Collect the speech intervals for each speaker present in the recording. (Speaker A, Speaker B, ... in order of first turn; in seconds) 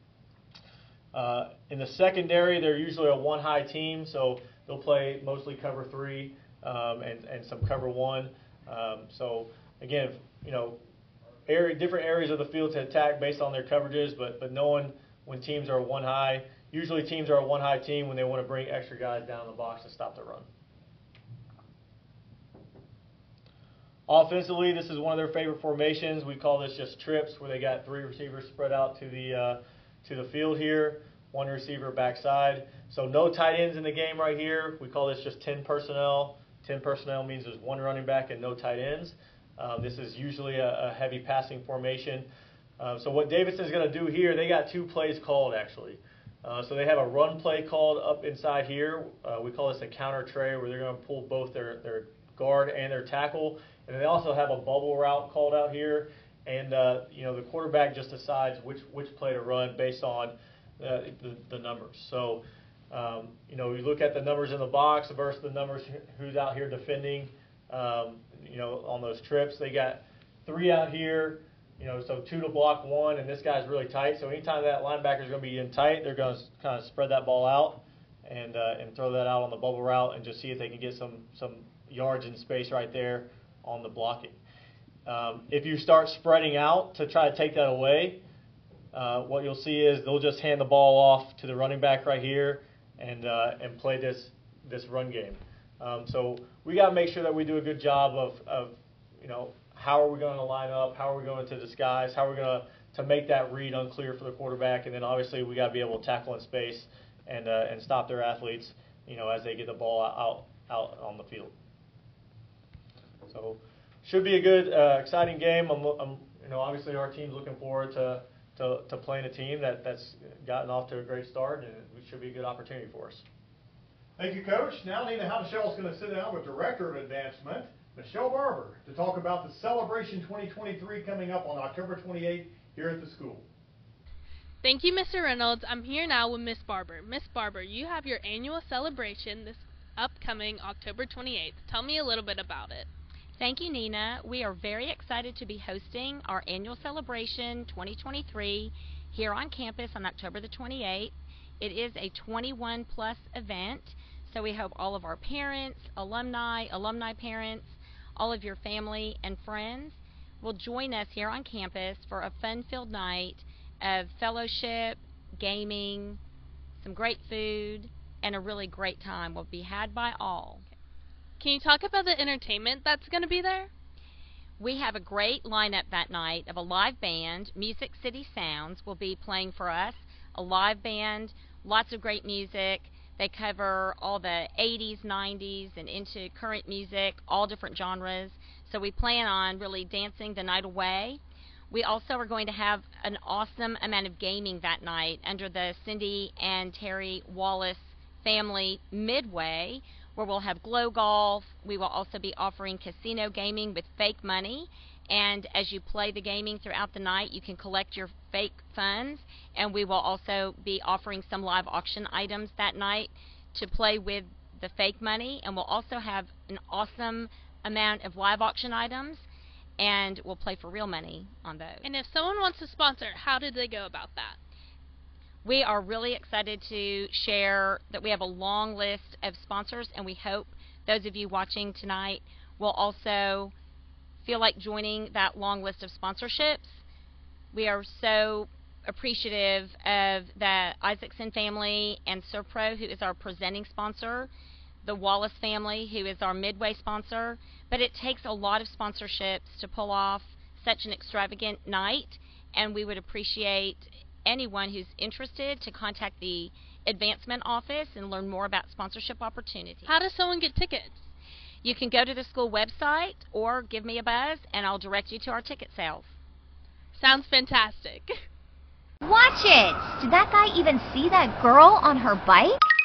Speaker A: 1.1-10.8, 11.5-20.5, 24.1-42.3, 42.8-84.4, 85.1-88.2, 88.9-111.5, 113.3-123.2
Speaker B: 124.2-133.4
Speaker C: 134.6-142.9, 171.4-173.7, 221.8-224.4, 259.9-261.0, 266.9-268.2
Speaker D: 143.4-166.2, 166.8-170.7, 174.6-219.2, 219.8-221.8, 225.4-233.5, 234.2-236.8, 237.5-244.3, 244.8-259.9, 261.6-266.1
Speaker E: 269.0-272.6